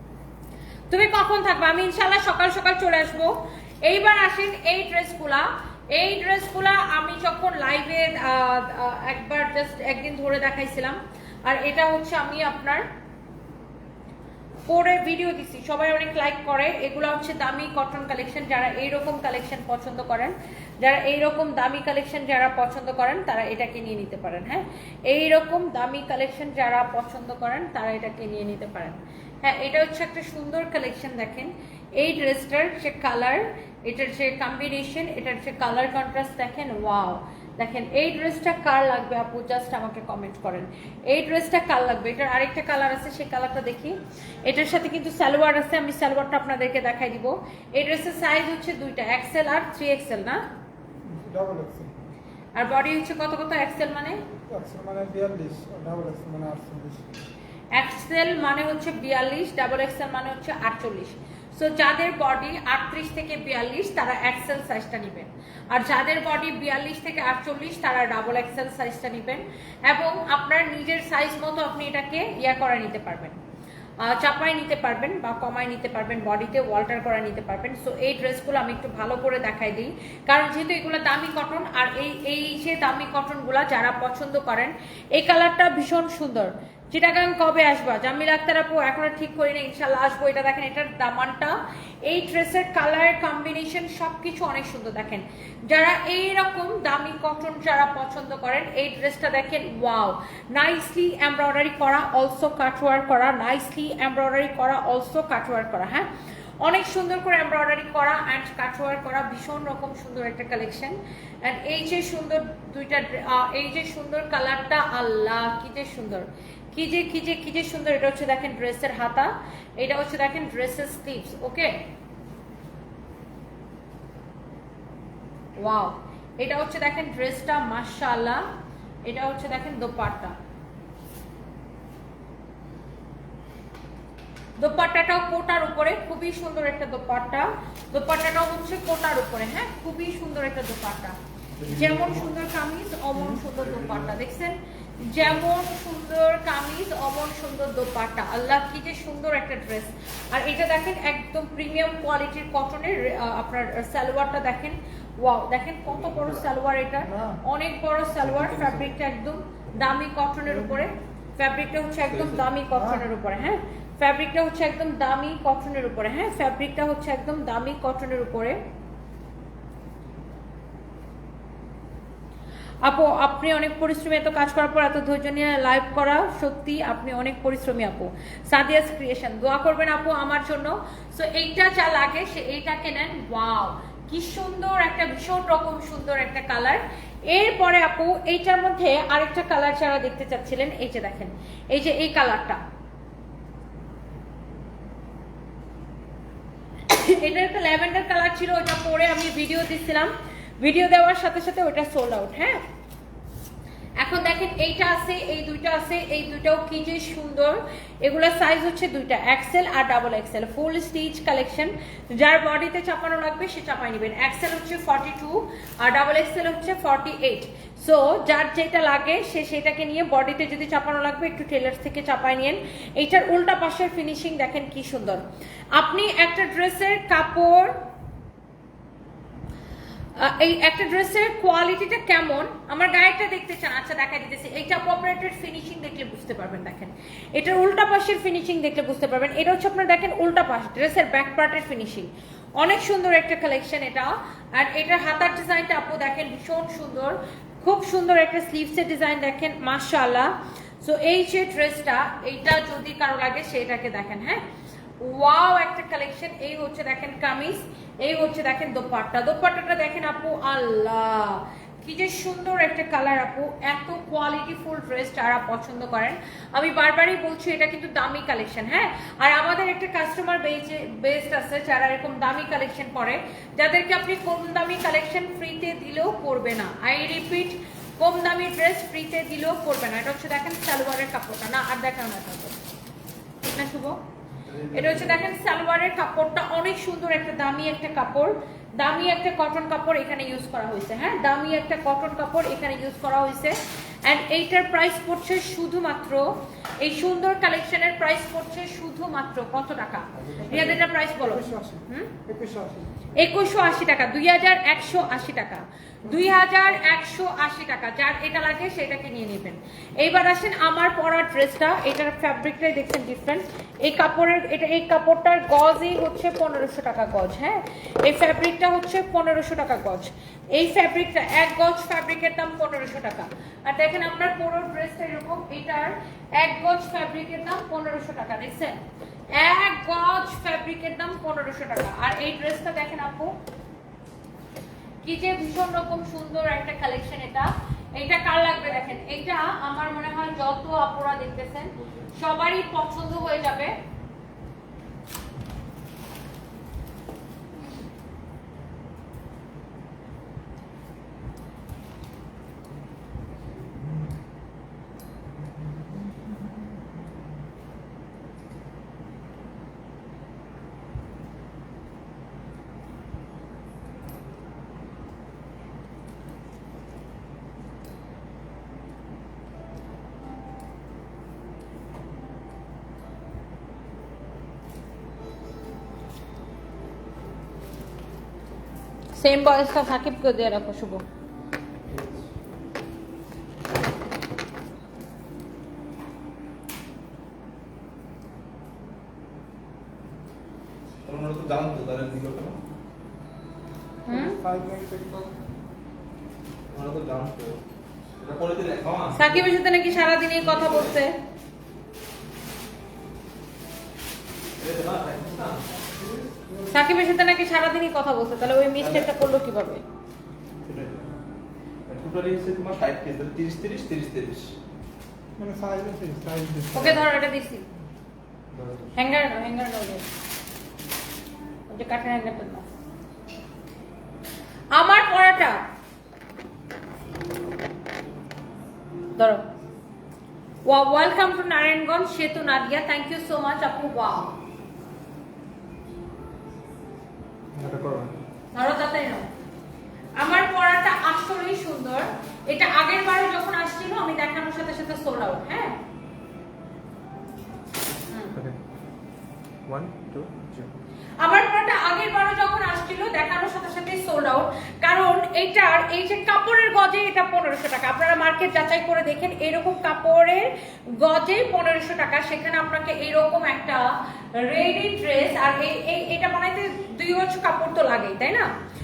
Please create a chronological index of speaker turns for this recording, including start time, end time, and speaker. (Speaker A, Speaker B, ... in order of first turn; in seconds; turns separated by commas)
Speaker A: 0.9-12.8, Speaker A: 14.7-50.4, Speaker B: 51.0-52.0, Speaker A: 52.5-54.2, Speaker B: 54.5-57.2, Speaker A: 57.7-73.4, Speaker A: 74.0-106.1, Speaker A: 106.6-121.8, Speaker A: 125.6-128.4, Speaker A: 129.0-130.3, Speaker A: 134.6-168.6, Speaker C: 141.6-142.4, Speaker C: 143.5-144.1, Speaker C: 155.9-156.4, Speaker B: 157.0-157.4, Speaker C: 158.2-158.9, Speaker B: 160.5-160.8, Speaker C: 162.1-162.5, Speaker B: 162.7-163.0, Speaker A: 172.8-192.6, Speaker A: 196.9-202.6, Speaker A: 204.0-225.2, Speaker A: 225.7-227.8, Speaker A: 230.2-254.4, Speaker A: 255.0-282.6, Speaker A: 283.5-284.0, Speaker C: 284.4-285.3, Speaker A: 284.7-302.1, Speaker C: 300.2-300.8, Speaker B: 300.5-303.2, Speaker A: 303.1-328.8, Speaker B: 306.1-306.5, Speaker A: 329.3-333.3, Speaker A: 335.0-343.7, Speaker C: 341.8-342.1, Speaker A: 379.1-381.0, Speaker C: 381.9-382.3, Speaker C: 391.0-392.6, Speaker A: 394.1-394.4, Speaker B: 394.1-395.4, Speaker C: 396.7-397.6, Speaker C: 398.2-399.5, Speaker A: 399.1-401.2, Speaker C: 400.4-400.9, Speaker C: 404.6-405.7, Speaker B: 405.9-406.8, Speaker A: 406.7-409.8, Speaker C: 408.8-409.1, Speaker C: 410.6-411.1, Speaker C: 411.9-414.5, Speaker B: 415.4-417.1, Speaker A: 416.7-417.6, Speaker C: 418.5-418.9, Speaker A: 418.9-420.1, Speaker A: 421.7-422.7, Speaker A: 424.7-425.7, Speaker A: 429.1-429.4, Speaker A: 430.6-434.4, Speaker C: 437.5-438.2, Speaker A: 438.5-439.3, Speaker A: 440.2-445.8, Speaker A: 448.1-448.4, Speaker C: 449.7-450.7, Speaker A: 451.2-468.5